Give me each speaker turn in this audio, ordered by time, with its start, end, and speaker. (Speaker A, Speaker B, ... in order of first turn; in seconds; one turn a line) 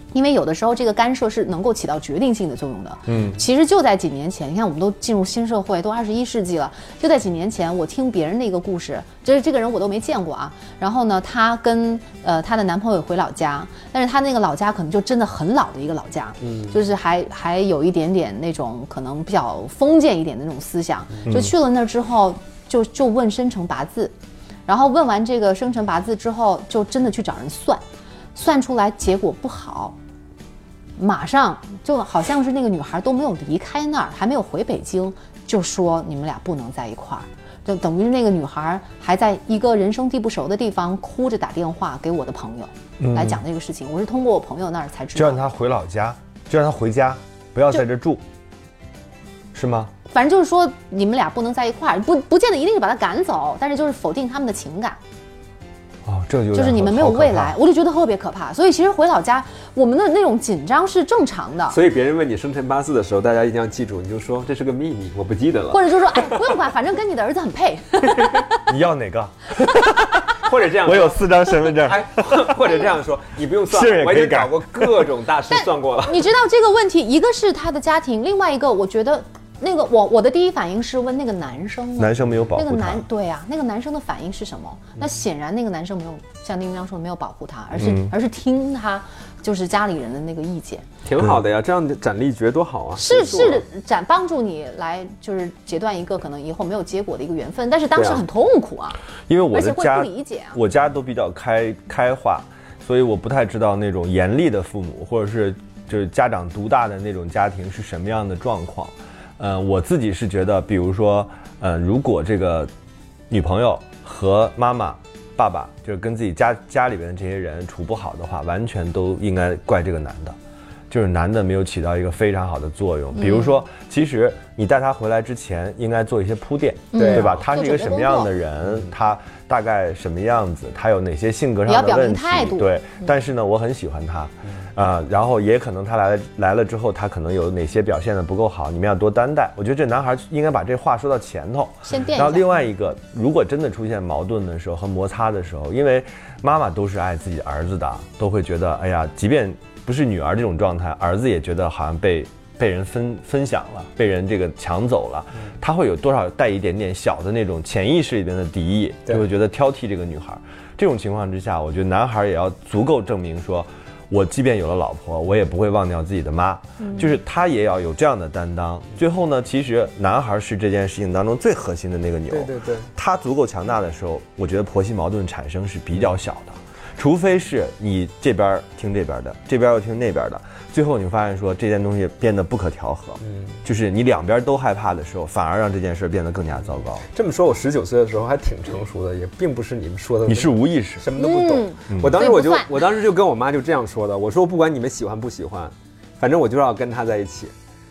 Speaker A: 0.1-24.1
Speaker B: 3.1-3.4
Speaker C: 16.4-16.7
Speaker B: 21.3-21.5
Speaker A: 24.7-27.8
Speaker A: 28.4-30.0
Speaker A: 31.0-45.5
Speaker B: 43.0-43.4
Speaker B: 45.1-48.2
Speaker B: 49.5-49.9
Speaker A: 50.1-55.0
Speaker B: 56.0-57.5
Speaker A: 56.5-61.8
Speaker C: 61.7-66.5
Speaker A: 65.7-68.7
Speaker B: 68.7-70.3
Speaker C: 70.4-76.3
Speaker B: 70.8-72.5
Speaker B: 73.7-75.1
Speaker A: 75.5-90.9
Speaker B: 82.0-83.0
Speaker B: 87.7-88.1
Speaker C: 91.0-93.6
Speaker A: 93.0-99.0
Speaker C: 98.0-98.2
Speaker B: 99.3-112.7
Speaker A: 99.5-100.6
Speaker B: 113.3-120.4
Speaker B: 120.9-187.1
Speaker A: 123.2-123.6
Speaker A: 126.9-128.3
Speaker C: 127.0-127.3
Speaker A: 131.7-132.8
Speaker A: 141.9-142.5
Speaker C: 172.3-172.9
Speaker C: 183.2-183.6
Speaker C: 187.1-197.5
Speaker B: 190.3-191.1
Speaker A: 191.2-192.8
Speaker B: 191.9-192.2